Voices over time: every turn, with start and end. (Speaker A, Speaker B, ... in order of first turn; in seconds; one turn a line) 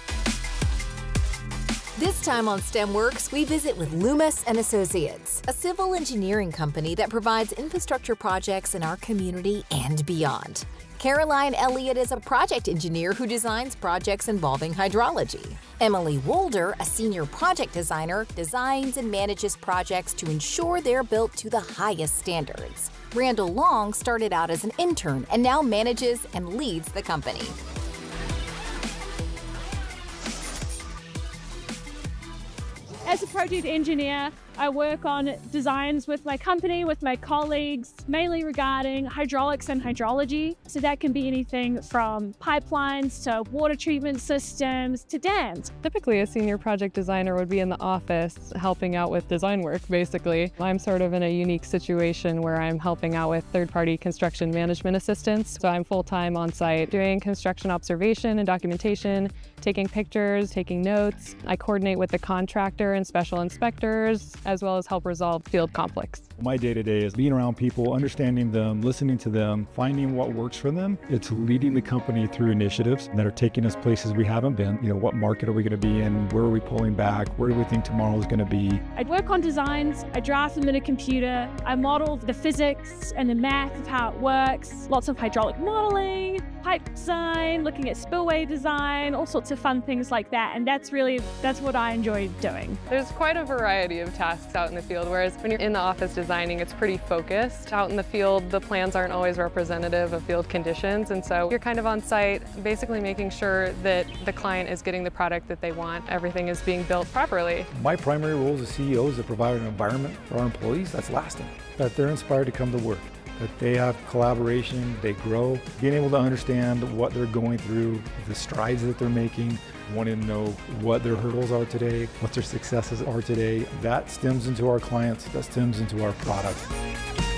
Speaker A: 1.9-27.6
Speaker B: 33.0-45.7
Speaker C: 45.8-66.3
Speaker D: 66.4-78.8
Speaker B: 79.0-92.8
Speaker C: 92.9-107.7
Speaker D: 107.7-126.7